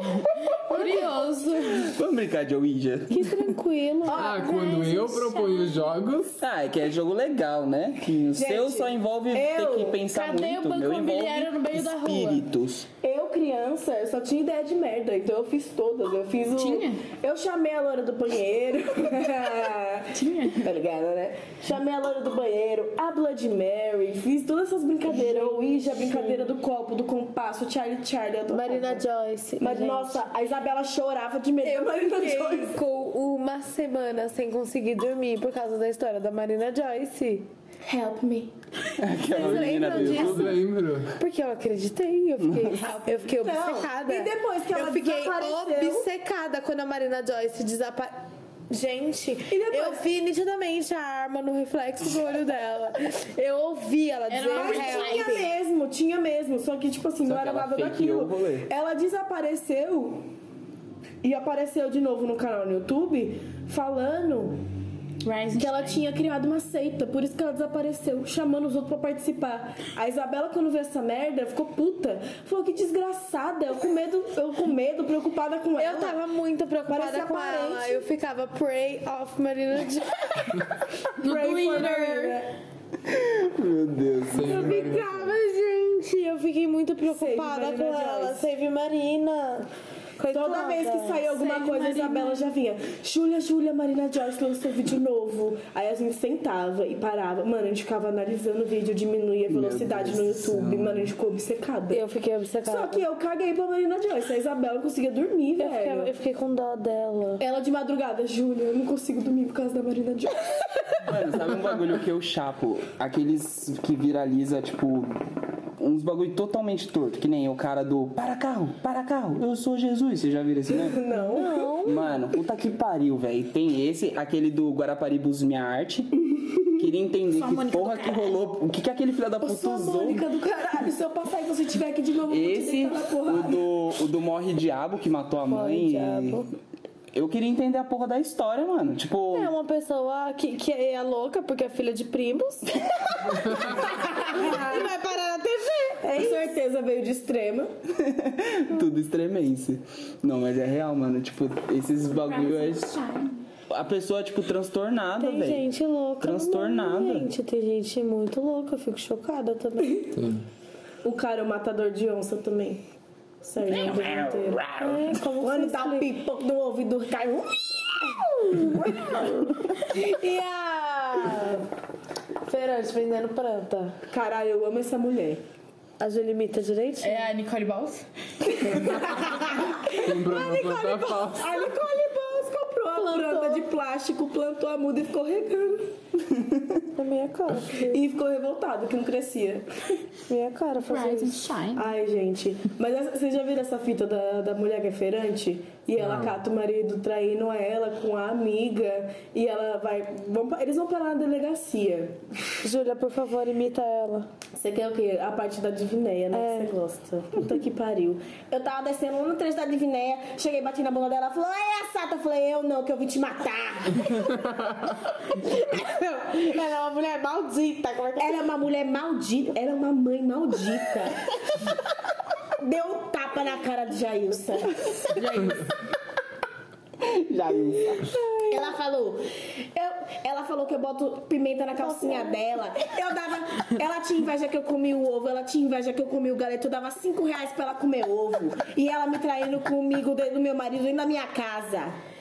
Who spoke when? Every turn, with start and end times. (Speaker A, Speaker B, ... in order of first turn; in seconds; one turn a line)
Speaker A: 0.2-1.9
Speaker B: 0.7-1.2
Speaker C: 1.8-3.5
Speaker B: 3.1-4.3
Speaker D: 4.0-5.1
Speaker E: 4.1-6.4
Speaker A: 4.4-5.9
Speaker C: 6.4-12.9
Speaker D: 8.4-10.1
Speaker A: 10.1-12.4
Speaker D: 13.0-29.0
Speaker A: 16.5-17.0
Speaker A: 20.1-20.6
Speaker B: 25.1-26.5
Speaker B: 28.5-30.2
Speaker D: 29.6-32.8
Speaker B: 31.6-37.5
Speaker D: 37.9-38.5
Speaker C: 39.0-40.6
Speaker B: 39.3-40.6
Speaker E: 39.4-41.1
Speaker B: 41.2-55.4
Speaker C: 42.4-42.7
Speaker D: 43.3-46.1
Speaker D: 49.5-50.1
Speaker A: 54.3-55.5
Speaker D: 54.6-60.3
Speaker C: 57.2-58.7
Speaker D: 61.2-64.6
Speaker A: 65.2-66.0
Speaker D: 65.6-76.2
Speaker B: 75.8-80.5
Speaker D: 76.9-78.0
Speaker A: 81.2-82.4
Speaker D: 81.2-82.5
Speaker C: 83.1-84.7
Speaker E: 84.3-85.4
Speaker B: 84.5-91.2
Speaker D: 87.1-88.5
Speaker D: 90.3-102.0
Speaker A: 91.2-92.5
Speaker C: 99.5-101.1
Speaker B: 101.9-103.0
Speaker D: 102.7-106.1
Speaker B: 105.6-107.5
Speaker D: 107.4-111.0
Speaker C: 111.0-115.2
Speaker C: 115.8-121.0
Speaker D: 120.7-121.7
Speaker B: 121.1-122.1
Speaker C: 121.8-126.2
Speaker C: 126.8-130.2
Speaker A: 127.5-128.3
Speaker D: 129.4-133.6
Speaker C: 132.3-136.4
Speaker B: 135.5-136.5
Speaker C: 137.1-139.5
Speaker B: 139.3-142.7
Speaker B: 143.5-146.3
Speaker D: 144.2-144.8
Speaker D: 146.0-147.7
Speaker C: 148.0-153.0
Speaker A: 152.2-153.5
Speaker C: 153.7-155.7
Speaker B: 155.2-160.0
Speaker C: 156.2-157.3
Speaker E: 160.1-160.4
Speaker D: 161.0-162.8
Speaker D: 163.4-164.7
Speaker C: 163.7-165.1
Speaker B: 164.8-166.1
Speaker D: 165.3-169.8
Speaker B: 169.9-171.7
Speaker B: 172.5-174.0
Speaker D: 174.1-175.4
Speaker B: 176.0-177.3
Speaker A: 177.0-178.1
Speaker D: 178.6-185.9
Speaker E: 179.9-181.6
Speaker B: 182.9-183.7
Speaker B: 186.9-188.0
Speaker D: 187.8-189.9
Speaker B: 190.3-191.4
Speaker A: 190.9-191.9
Speaker D: 191.8-202.2
Speaker E: 196.0-196.4
Speaker B: 202.6-204.3
Speaker D: 204.5-214.3
Speaker B: 206.3-206.8
Speaker B: 215.6-218.4
Speaker D: 218.2-221.2
Speaker D: 222.6-225.2
Speaker A: 225.2-225.7
Speaker C: 227.0-228.1
Speaker D: 228.5-242.0
Speaker B: 231.8-232.4